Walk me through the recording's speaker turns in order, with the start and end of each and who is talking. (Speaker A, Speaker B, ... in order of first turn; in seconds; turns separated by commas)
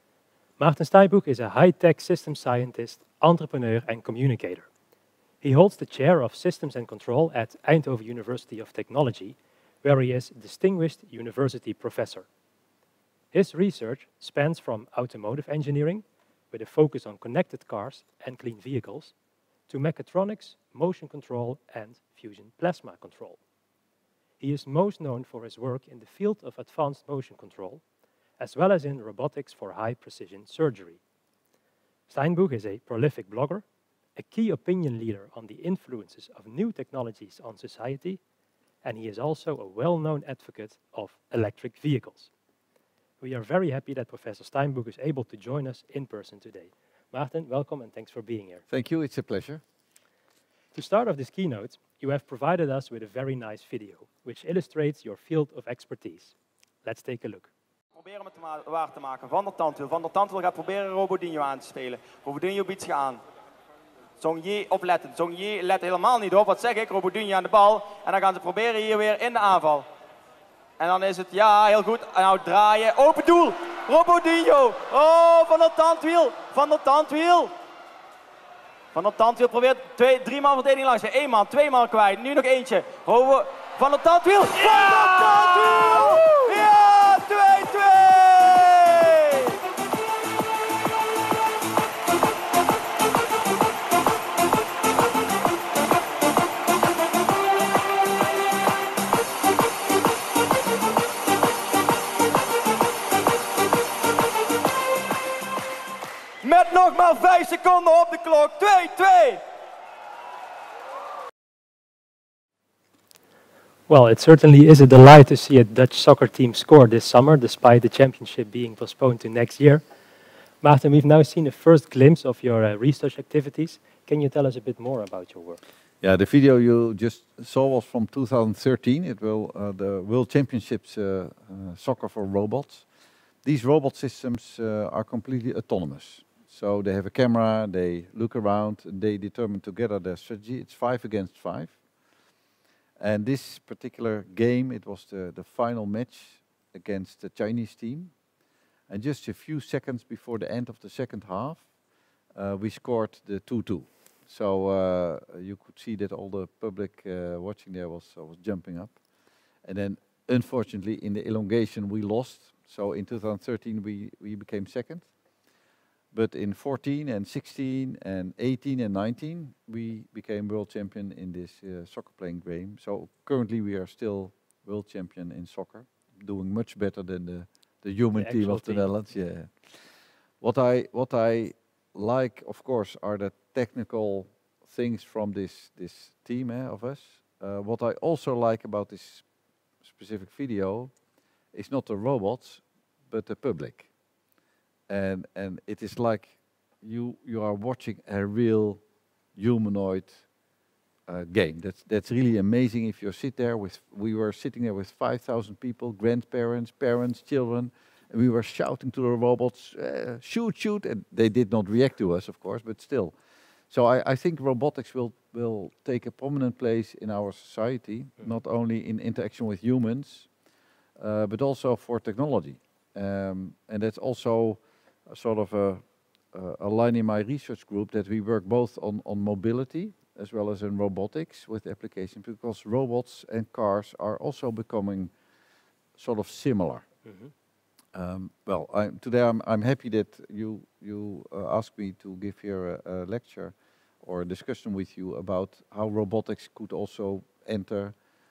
Speaker A: 0.6-4.7, Speaker A: 5.4-12.3, Speaker A: 13.3-19.1, Speaker A: 19.7-23.4, Speaker A: 24.4-27.8, Speaker A: 28.4-31.0, Speaker A: 32.1-33.6, Speaker A: 34.1-38.2, Speaker A: 38.8-42.3, Speaker A: 43.2-48.6, Speaker B: 48.7-49.6, Speaker A: 50.7-57.5, Speaker C: 58.0-63.2, Speaker C: 64.2-69.9, Speaker C: 70.8-77.5, Speaker C: 78.9-89.5, Speaker C: 106.4-109.4, Speaker A: 113.9-119.8, Speaker A: 120.6-125.6, Speaker B: 126.0-132.9, Speaker B: 133.4-141.8, Speaker B: 143.0-148.1, Speaker B: 148.9-151.7, Speaker B: 152.3-159.0, Speaker B: 159.6-165.1, Speaker B: 166.1-179.8, Speaker A: 178.2-178.9, Speaker B: 180.4-189.2, Speaker B: 189.8-190.9, Speaker B: 191.5-193.9, Speaker B: 194.9-198.8, Speaker B: 199.3-200.2, Speaker B: 201.1-213.1, Speaker B: 213.7-220.3, Speaker B: 221.0-235.1, Speaker B: 236.0-236.9, Speaker A: 237.1-237.3, Speaker B: 237.9-247.9